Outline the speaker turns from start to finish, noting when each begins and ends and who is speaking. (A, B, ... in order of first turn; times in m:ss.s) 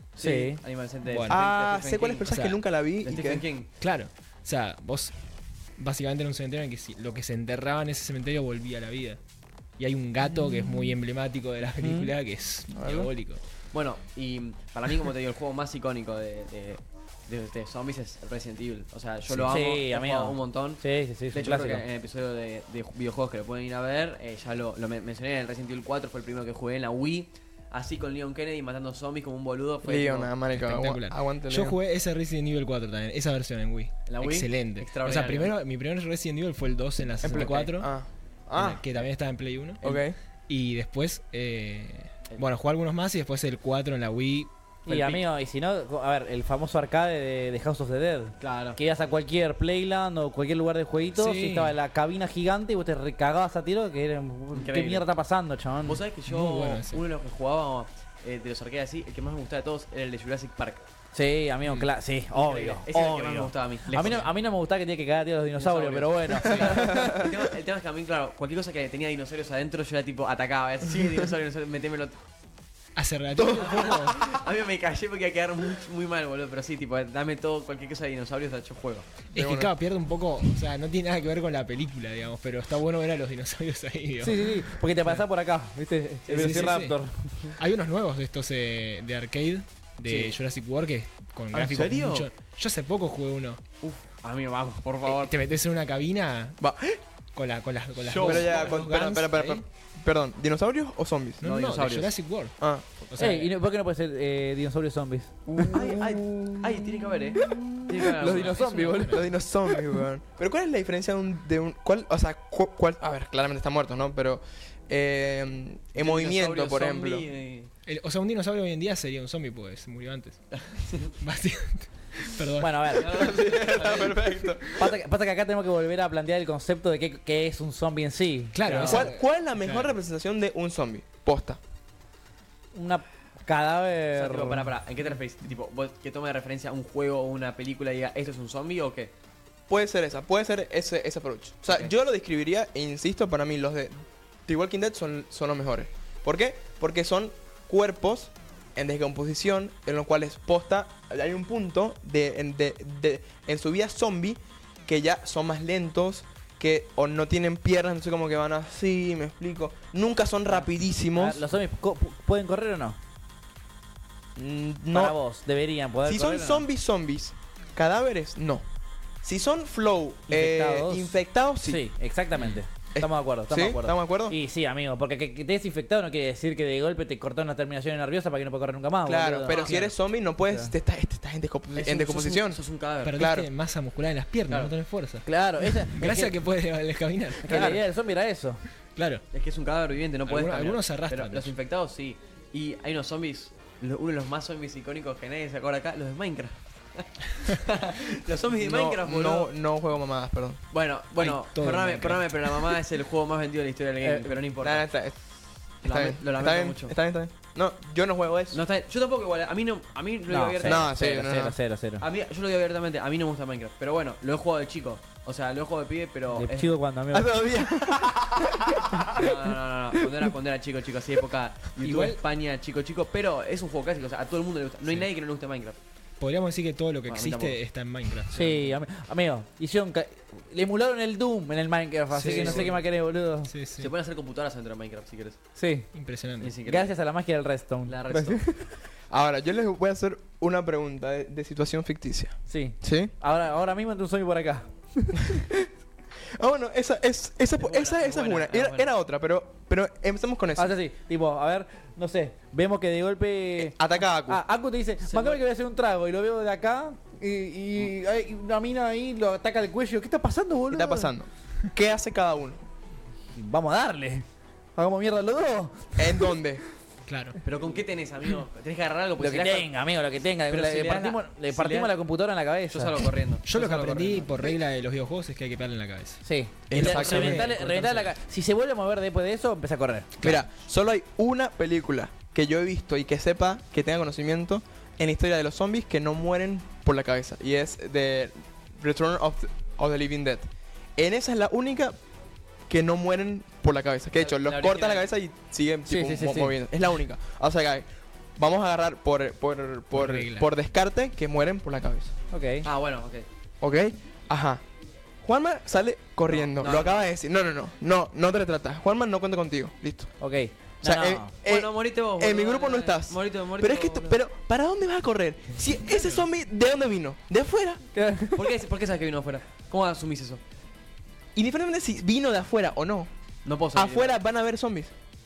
0:00.2-0:02.3 A
0:00.2-0:00.6 B
0:01.0-0:01.4 C
0:01.3-0:03.4 D
0:02.3-0:02.6 C
0:03.0-0:03.7 A
0:03.8-0:05.2 C
0:05.8-0:09.2 C
0:09.8-0:13.4 C
0:11.8-0:12.1 B
0:12.7-0:13.1 D
0:13.7-0:30.3 A
0:19.3-0:19.5 C
0:19.5-0:21.8 B
0:29.8-0:31.8 D
0:30.5-0:37.9 C
0:34.1-0:35.5 A
0:37.2-0:38.8 D
0:37.2-0:37.7 A
0:38.5-0:44.5 C
0:39.8-0:40.1 D
0:44.8-0:45.2 A
0:44.8-0:56.0 B
0:48.4-0:48.8 A
0:51.2-0:51.7 C
0:54.5-0:55.0 A
0:55.8-1:00.8 A
0:56.3-0:57.0 C
1:01.1-1:07.2 B
1:02.3-1:04.3 A
1:05.6-1:12.2 A
1:06.5-1:07.4 D
1:13.0-1:14.3 C
1:13.3-1:14.4 D
1:13.5-1:19.2 A
1:19.3-1:19.7 D
1:19.3-1:25.2 C
1:24.2-1:27.5 B
1:26.3-1:26.8 A
1:26.3-1:27.0 C
1:27.6-1:33.6 C
1:30.0-1:30.4 A
1:31.5-1:32.3 A
1:33.8-1:35.4 A
1:35.0-1:36.6 C
1:36.6-1:37.0 D
1:37.3-1:39.6 C
1:38.0-1:38.9 A
1:38.2-1:41.4 D
1:41.4-1:43.5 C
1:41.4-1:42.2 A
1:42.6-1:42.8 D
1:43.2-1:45.7 B
1:45.5-1:57.3 D
1:45.7-1:49.1 A
1:48.2-1:49.2 B
1:48.2-1:49.2 C
1:56.0-1:57.7 A
1:57.8-2:03.3 C
2:00.5-2:01.1 A
2:02.6-2:03.1 B
2:03.0-2:04.4 A
2:03.1-2:04.8 D
2:04.8-2:09.0 B
2:08.5-2:09.9 C
2:08.8-2:11.6 D
2:12.7-2:14.6 B
2:14.1-2:19.1 A
2:19.7-2:23.9 D
2:24.5-2:41.4 D
2:41.1-2:43.0 B
2:44.4-2:45.2 D
2:44.9-2:46.6 B
2:46.0-2:48.6 D
2:49.2-2:51.8 D
2:50.3-2:59.7 B
2:52.3-2:52.6 C
2:52.9-2:54.4 D
2:59.0-3:02.6 D
2:59.5-2:59.9 C
3:00.4-3:00.7 B
3:01.7-3:03.2 A
3:03.0-3:07.8 C
3:03.1-3:03.5 D
3:04.5-3:04.7 A
3:05.2-3:06.3 B
3:07.4-3:08.6 B
3:09.0-3:09.2 C
3:09.3-3:19.5 A
3:10.2-3:11.5 C
3:18.6-3:20.6 D
3:20.7-3:24.8 A
3:21.2-3:22.7 C
3:24.0-3:24.3 B
3:24.6-3:25.2 D
3:25.8-3:26.9 A
3:25.8-3:28.6 D
3:28.5-3:31.0 A
3:30.3-3:32.0 B
3:30.6-3:31.6 D
3:32.0-3:36.7 A
3:36.3-3:37.4 B
3:37.1-3:39.4 D
3:39.1-3:45.8 A
3:41.8-3:42.2 C
3:46.2-3:48.8 C
3:47.1-3:47.6 A
3:48.2-3:48.4 A
3:48.3-3:53.5 B
3:52.1-3:52.7 C
3:52.2-3:52.8 A
3:53.5-3:53.9 C
3:53.8-3:55.4 A
3:55.6-3:55.9 B
3:55.9-3:56.6 C
3:56.4-3:56.9 A
3:56.6-3:58.5 B
3:57.9-3:58.4 A
3:59.1-4:03.1 D
4:02.5-4:05.3 B
4:05.2-4:05.7 D
4:06.3-4:10.7 D
4:07.6-4:08.9 A
4:10.6-4:21.1 B
4:13.6-4:14.4 D
4:15.0-4:15.4 A
4:20.7-4:22.6 D
4:23.3-4:26.4 B
4:26.0-4:26.6 D
4:27.0-4:27.4 C
4:27.4-4:29.7 A
4:29.3-4:33.1 B
4:30.5-4:31.9 A
4:32.7-4:34.6 A
4:33.4-4:38.1 C
4:36.2-4:40.1 B
4:36.7-4:37.5 D
4:40.2-4:52.0 D
4:52.7-4:57.8 D
4:54.2-4:55.1 A
4:55.9-4:56.6 B
4:58.4-5:02.1 D
4:59.9-5:00.5 C
5:02.3-5:02.6 B
5:02.6-5:03.2 A
5:03.6-5:04.6 D
5:05.2-5:10.1 D
5:06.3-5:07.0 A
5:10.2-5:11.3 B
5:10.8-5:17.8 D
5:11.4-5:14.2 A
5:17.9-5:18.5 B
5:18.3-5:20.4 A
5:21.3-5:23.1 D
5:23.4-5:24.2 A
5:23.7-5:24.9 D